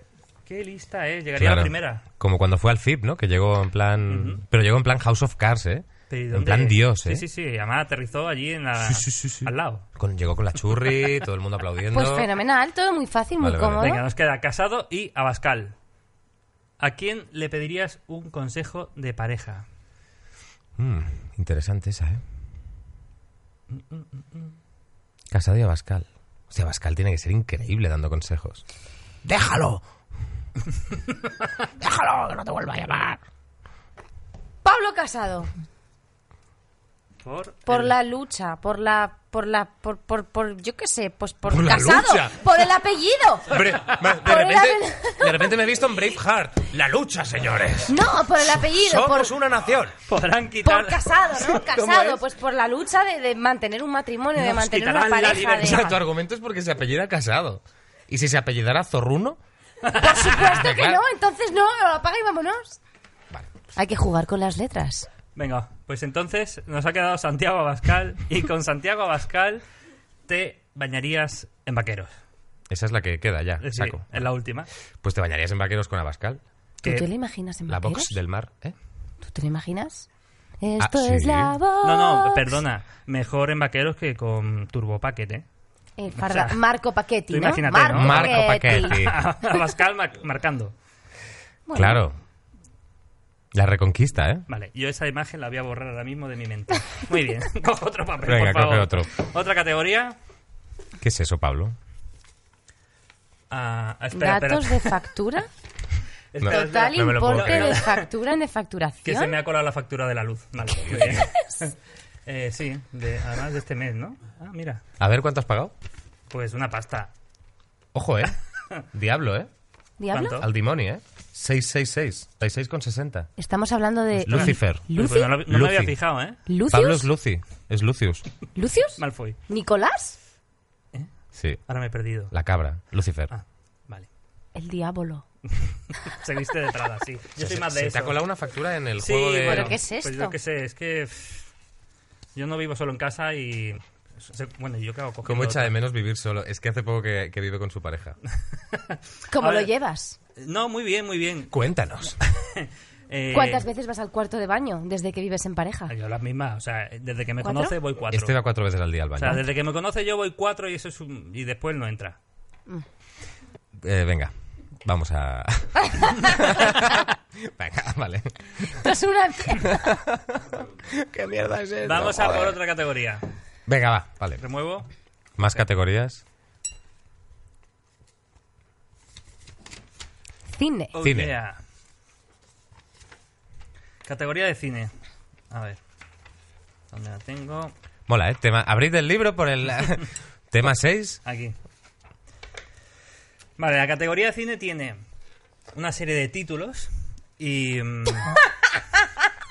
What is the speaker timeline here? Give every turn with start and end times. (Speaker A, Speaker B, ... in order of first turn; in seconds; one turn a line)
Speaker A: 0.5-2.0
Speaker B: 1.4-7.2
Speaker A: 4.1-4.4
Speaker A: 6.1-9.8
Speaker B: 8.8-12.3
Speaker C: 11.9-14.0
Speaker B: 13.4-14.0
Speaker A: 13.8-15.7
Speaker A: 16.8-19.7
Speaker B: 20.8-22.2
Speaker A: 23.7-24.6
Speaker B: 25.3-28.6
Speaker B: 29.2-29.8
Speaker B: 31.8-33.2
Speaker C: 34.6-35.5
Speaker A: 37.2-37.9
Speaker C: 37.7-45.5
Speaker B: 41.5-42.5
Speaker B: 43.5-50.0
Speaker C: 47.9-49.3
Speaker A: 50.1-51.6
Speaker C: 50.6-55.8
Speaker B: 51.7-52.2
Speaker A: 54.4-56.0
Speaker B: 55.6-59.4
Speaker A: 59.9-60.4
Speaker C: 59.9-62.8
Speaker B: 60.4-61.0
Speaker C: 63.7-65.1
Speaker A: 65.4-69.6
Speaker A: 70.3-72.1
Speaker B: 72.7-74.3
Speaker A: 73.6-74.7
Speaker B: 75.0-76.4
Speaker C: 76.8-78.2
Speaker B: 77.7-78.7
Speaker C: 79.2-80.1
Speaker C: 80.6-82.5
Speaker B: 80.8-81.5
Speaker A: 81.8-85.4
Speaker C: 86.0-89.0
Speaker A: 86.2-86.6
Speaker A: 87.3-90.7
Speaker B: 87.9-89.2
Speaker C: 91.7-92.0
Speaker B: 91.7-92.2
Speaker B: 93.5-94.5
Speaker A: 94.5-100.2
Speaker B: 98.2-99.1
Speaker B: 101.0-101.7
Speaker A: 103.5-105.0
Speaker C: 104.1-105.5
Speaker A: 106.3-108.1
Speaker B: 106.4-107.7
Speaker C: 106.5-109.3
Speaker A: 109.0-111.7
Speaker B: 110.7-111.3
Speaker C: 111.2-111.6
Speaker A: 112.3-114.8
Speaker B: 115.0-115.7
Speaker A: 116.3-117.1
Speaker B: 117.9-119.5
Speaker C: 120.0-120.4
Speaker A: 120.1-120.5
Speaker B: 120.4-123.3
Speaker C: 123.4-125.4
Speaker B: 124.3-124.9
Speaker A: 124.3-126.4
Speaker B: 125.5-126.0
Speaker C: 126.5-127.1
Speaker B: 126.7-128.3
Speaker C: 128.6-130.2
Speaker A: 129.0-129.4
Speaker B: 131.3-131.6
Speaker A: 131.7-132.3
Speaker B: 132.3-133.3
Speaker A: 133.3-134.1
Speaker C: 134.6-135.3
Speaker A: 135.6-138.2
Speaker B: 137.4-139.7
Speaker A: 139.0-141.5
Speaker C: 139.4-140.3
Speaker A: 142.3-145.7
Speaker B: 145.2-148.2
Speaker A: 148.6-149.7
Speaker C: 149.3-150.2
Speaker A: 150.4-151.6
Speaker B: 151.5-152.2
Speaker A: 152.3-153.6
Speaker C: 153.3-155.9
Speaker A: 155.9-158.4
Speaker C: 157.4-157.7
Speaker B: 158.1-159.4
Speaker A: 159.2-162.2
Speaker B: 163.8-168.9
Speaker C: 168.6-169.9
Speaker B: 169.8-172.6
Speaker A: 171.8-173.2
Speaker B: 173.7-174.4
Speaker A: 174.4-174.9
Speaker B: 175.4-176.2
Speaker C: 180.5-180.9
Speaker A: 180.9-181.6
Speaker B: 181.0-181.4
Speaker A: 184.1-184.9
Speaker A: 185.5-185.8
Speaker A: 186.9-187.7
Speaker B: 188.1-191.2
Speaker A: 191.2-191.6
Speaker A: 193.6-195.0
Speaker A: 195.7-198.4